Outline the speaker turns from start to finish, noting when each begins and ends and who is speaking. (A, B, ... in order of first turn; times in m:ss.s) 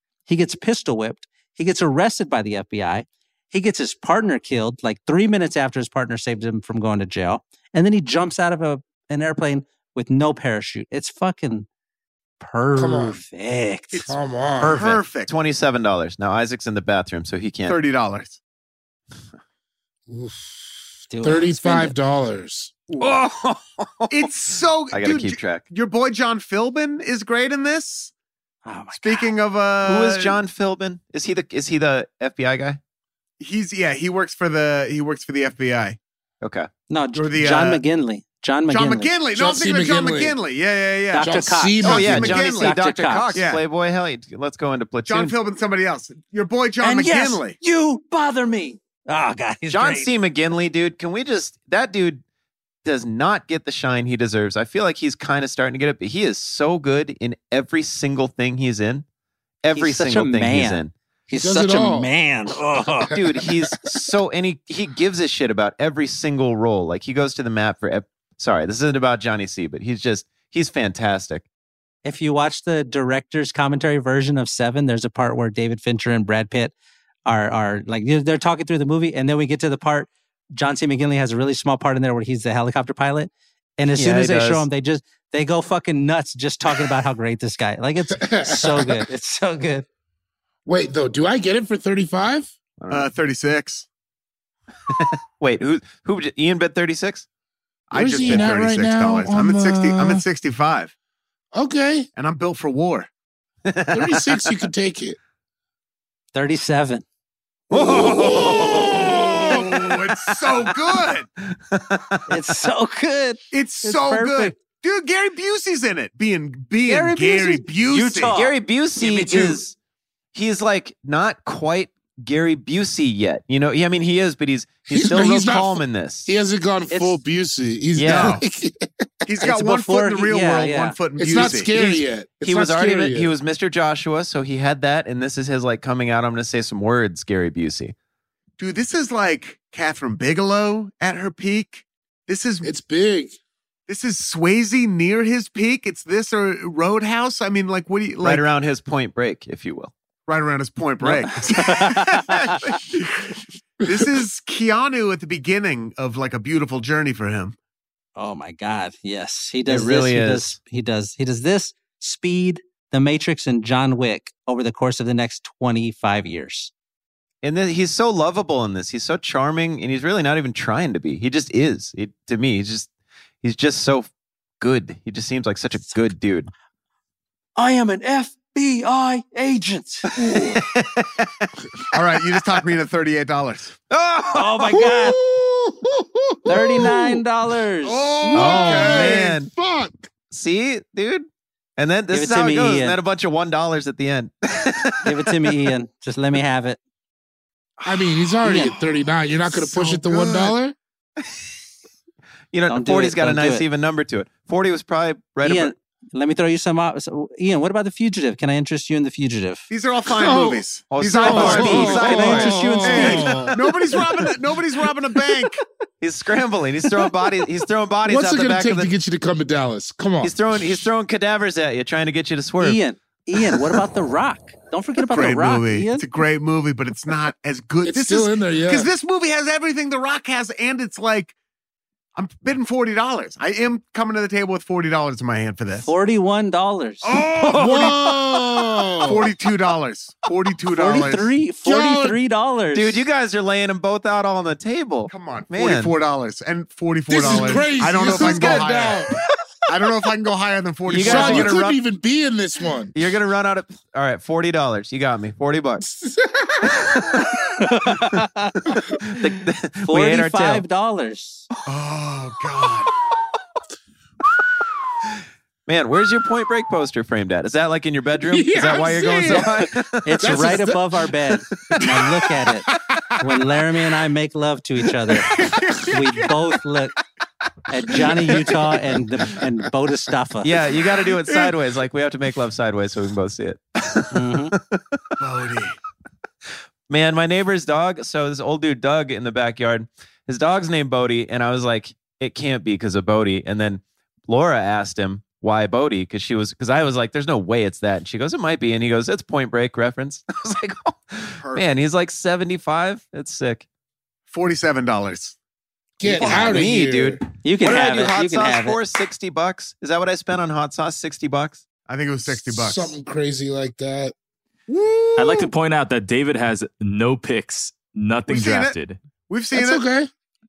0:00.3-0:11.7 A
0:12.4-0:14.1 A
0:12.8-0:13.2 B
0:14.1-0:14.8 B
0:14.6-0:15.0 A
0:14.6-0:15.3 C
0:15.3-0:17.8 D
0:17.6-0:18.4 C
0:20.1-0:20.6 B
0:21.1-0:22.0 A
0:21.2-0:22.8 B
0:22.9-0:23.2 C
0:23.0-0:24.2 D
0:24.1-0:28.1 C
0:24.9-0:25.7 D
0:28.6-0:29.3 A
0:29.0-0:30.4 C
0:29.8-0:32.8 D
0:33.4-0:36.0 C
0:36.4-0:36.7 D
0:36.9-0:39.1 A
0:37.1-0:37.8 C
0:38.7-0:42.8 C
0:39.3-0:40.4 B
0:41.1-0:43.4 A
0:41.2-0:42.4 B
0:41.8-0:45.3 D
0:43.3-0:43.6 C
0:45.1-0:47.6 C
0:46.8-0:50.1 A
0:49.7-0:52.2 D
0:52.8-0:59.0 D
0:59.6-1:00.9 D
0:59.7-1:03.1 A
1:01.3-1:02.1 B
1:03.1-1:11.4 D
1:12.0-1:16.7 A
1:17.3-1:29.9 A
1:24.0-1:24.6 D
1:28.2-1:29.0 B
1:30.6-1:32.5 B
1:32.8-1:33.1 D
1:32.9-1:33.9 C
1:34.9-1:37.3 D
1:37.9-1:40.9 C
1:37.9-1:40.2 B
1:38.1-1:38.5 D
1:41.5-1:42.1 B
1:42.2-1:43.1 C
1:43.6-1:44.6 D
1:43.9-1:45.2 B
1:46.3-1:47.0 A
1:47.7-1:49.5 D
1:48.1-1:49.4 B
1:49.4-1:51.3 C
1:51.5-1:52.3 D
1:52.3-1:54.6 A
1:53.5-1:58.4 C
1:56.9-1:58.6 A
1:58.3-1:59.7 D
1:59.0-1:59.6 B
2:00.3-2:06.3 D
2:04.9-2:09.1 B
2:06.9-2:07.2 A
2:08.0-2:08.4 D
2:08.1-2:08.4 C
2:09.2-2:11.8 C
2:09.4-2:11.0 A
2:11.2-2:13.3 B
2:12.4-2:17.9 D
2:18.6-2:22.7 C
2:22.6-2:23.4 B
2:23.9-2:28.4 C
2:28.2-2:29.9 D
2:30.3-2:37.6 C
2:31.0-2:32.6 A
2:38.2-2:46.7 A
2:39.7-2:40.6 D
2:47.4-2:52.9 D
2:53.4-2:54.1 D
2:54.6-2:56.5 D
2:57.6-3:00.1 A
3:00.2-3:01.5 D
3:00.2-3:00.6 B
3:01.9-3:03.7 C
3:03.9-3:04.8 D
3:04.3-3:05.2 A
3:04.8-3:07.2 B
3:06.5-3:08.0 A
3:07.8-3:09.3 C
3:08.2-3:10.1 B
3:08.3-3:09.5 D
3:10.3-3:15.3 D
3:12.1-3:13.0 A
3:15.0-3:16.8 A
3:17.8-3:20.8 B
3:18.4-3:18.7 A
3:19.5-3:20.6 C
3:22.5-3:25.7 D
3:22.7-3:23.6 A
3:25.4-3:29.7 A
3:29.7-3:35.6 C
3:30.2-3:33.5 B
3:30.9-3:34.3 D
3:31.2-3:33.2 A
3:36.0-3:38.9 D
3:38.0-3:40.4 B
3:40.2-3:42.8 D
3:42.6-3:46.0 A
3:45.1-3:51.3 C
3:47.8-3:48.9 B
3:52.2-3:55.9 C
3:55.8-3:57.2 A
3:57.0-3:58.2 C
3:57.4-3:59.3 B
3:59.0-4:01.3 C
4:00.7-4:03.0 A
4:01.6-4:02.2 B
4:02.7-4:05.9 D
4:05.1-4:09.0 C
4:07.1-4:09.2 B
4:09.7-4:11.6 C
4:10.9-4:12.9 B
4:10.9-4:11.8 D
4:12.9-4:15.8 D
4:15.8-4:17.0 B
4:17.6-4:18.6 A
4:19.1-4:20.6 D
4:19.9-4:21.4 A
4:21.6-4:22.9 C
4:25.7-4:30.3 D
4:28.3-4:30.9 B
4:30.0-4:32.6 A
4:32.7-4:33.0 B
4:33.2-4:35.3 A
4:35.3-4:36.0 C
4:35.9-4:36.9 A
4:37.7-4:40.6 A
4:40.4-4:45.0 D
4:41.0-4:41.6 C
4:44.1-4:44.6 A
4:45.2-4:45.8 C
4:46.9-5:03.6 D
5:01.4-5:01.7 C
5:04.3-5:05.4 C
5:06.0-5:07.2 B
5:06.0-5:11.6 D
5:06.2-5:06.7 C
5:07.4-5:08.8 A
5:11.9-5:12.9 C
5:12.2-5:14.1 B
5:14.7-5:15.5 C
5:15.2-5:19.0 E
5:18.3-5:18.8 C
5:19.3-5:19.8 C
5:19.5-5:20.1 B